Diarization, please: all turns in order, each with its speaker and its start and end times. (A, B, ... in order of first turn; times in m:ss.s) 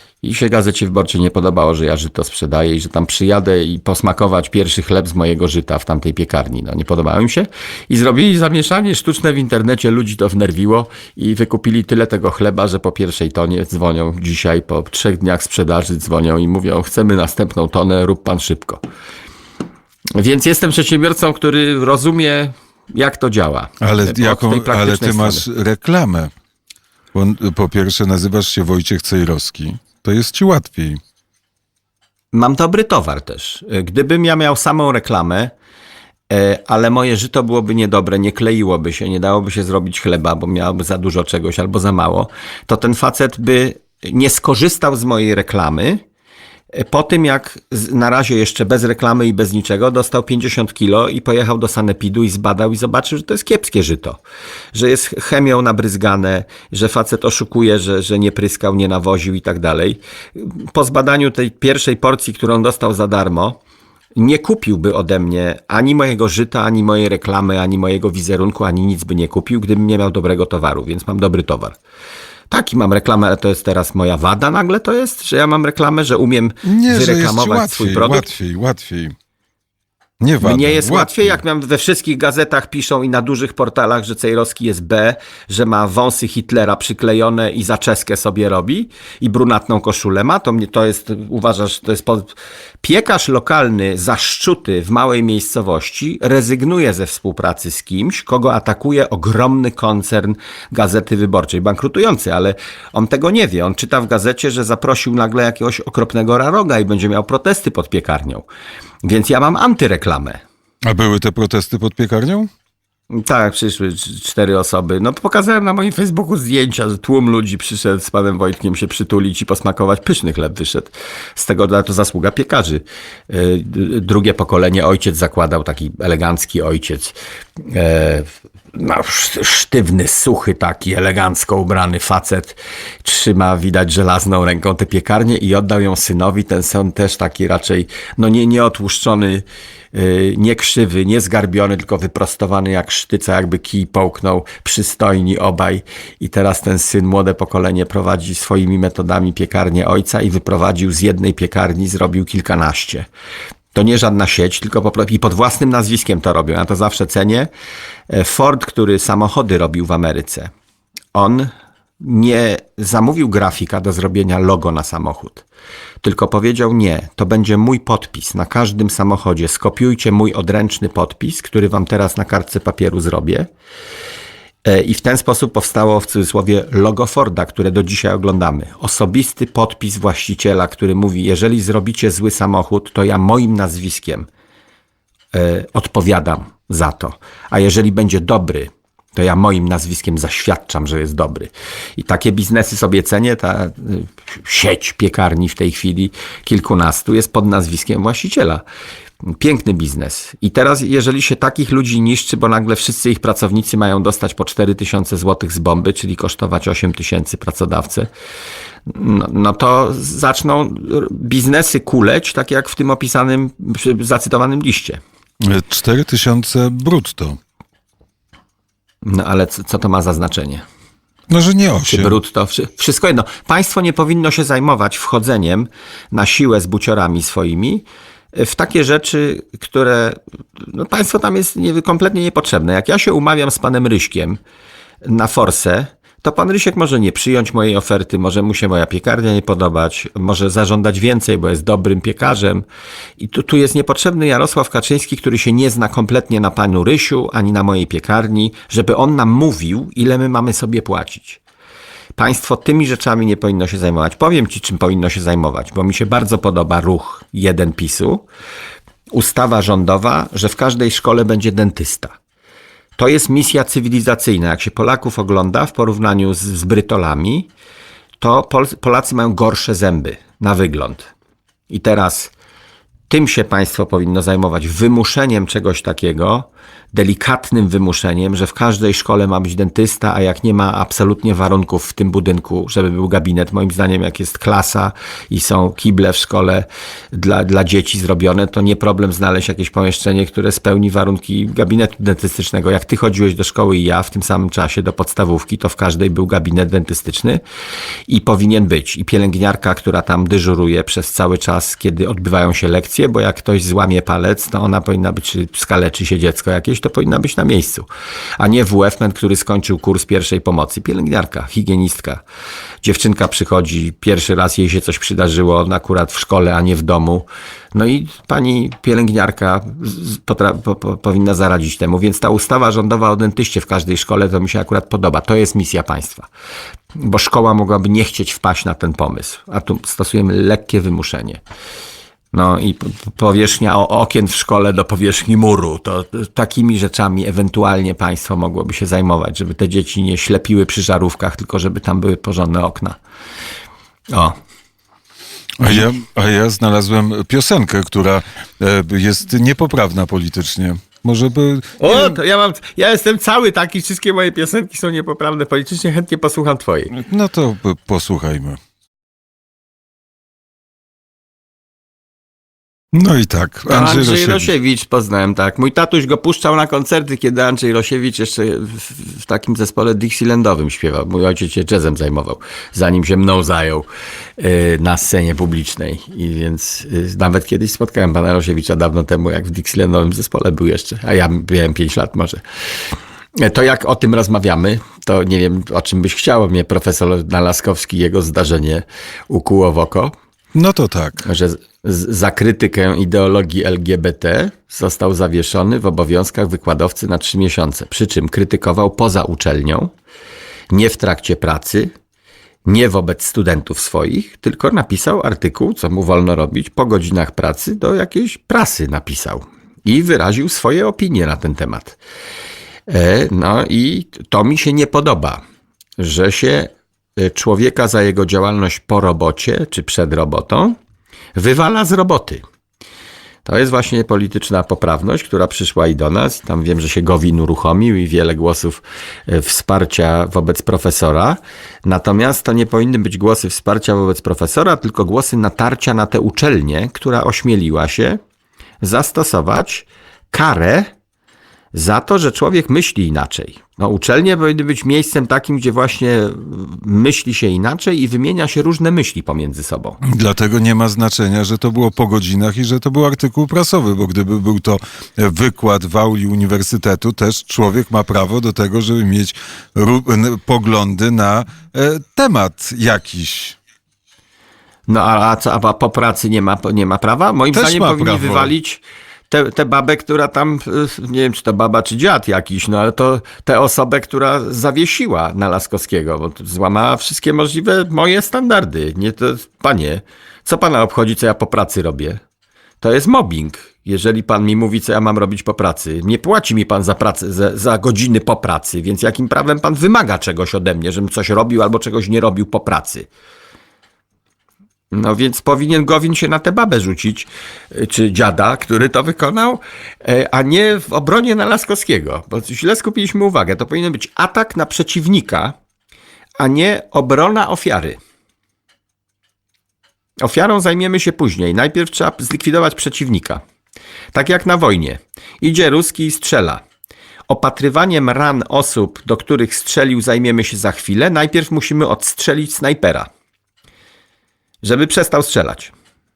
0:00.2-0:18.8 A
0:20.2-0:25.5 A
0:23.8-0:26.3 B
0:27.1-0:31.0 B
0:32.3-0:35.5 A
0:36.3-0:46.0 A
0:46.7-0:54.2 A
0:54.7-1:03.6 A
1:04.2-1:11.8 A
1:12.5-1:18.3 A
1:16.6-1:19.1 B
1:20.2-1:21.4 B
1:20.4-1:48.5 A
1:49.0-1:50.4 A
1:50.9-1:52.5 B
1:53.1-2:33.1 A
2:33.7-2:37.5 A
2:38.1-2:40.5 A
2:41.1-2:45.5 A
2:46.0-2:53.5 A
2:54.6-3:04.3 A
3:05.3-3:18.6 A
3:19.4-3:28.1 A
3:28.9-3:35.0 A
3:35.4-3:37.4 B
3:39.0-3:40.6 A
3:41.3-3:42.2 B
3:41.9-3:54.4 A
3:55.0-4:02.7 A
4:03.2-4:11.4 A
4:12.2-4:18.3 A
4:19.1-4:22.2 A
4:23.0-4:27.5 A
4:28.2-4:31.1 A
4:31.7-4:32.3 A
4:33.1-4:57.4 A
4:58.1-5:07.9 A
5:08.4-5:12.2 A
5:12.8-5:26.3 A
5:27.0-5:31.4 A
5:32.3-5:43.0 A
5:45.6-5:52.2 B
5:51.8-5:56.9 A
5:56.9-5:58.6 B
6:02.9-6:04.5 B
6:03.7-6:13.9 A
6:14.4-6:22.4 A
6:23.4-6:30.1 A
6:30.6-6:31.3 B
6:31.2-6:39.9 A
6:40.7-6:41.9 A
6:42.7-6:52.0 A
6:52.9-6:55.4 A
6:56.0-7:00.8 A
7:01.4-7:02.4 A
7:03.4-7:18.2 A
7:18.8-7:20.9 A
7:21.7-7:30.0 A
7:30.0-7:43.6 B
7:44.9-8:02.2 A
7:47.5-7:48.5 B
8:02.8-8:13.1 A
8:14.9-8:25.6 A
8:26.4-8:28.0 A
8:30.2-8:33.4 A
8:34.1-8:36.6 A
8:37.3-8:43.1 A
8:44.6-8:45.7 A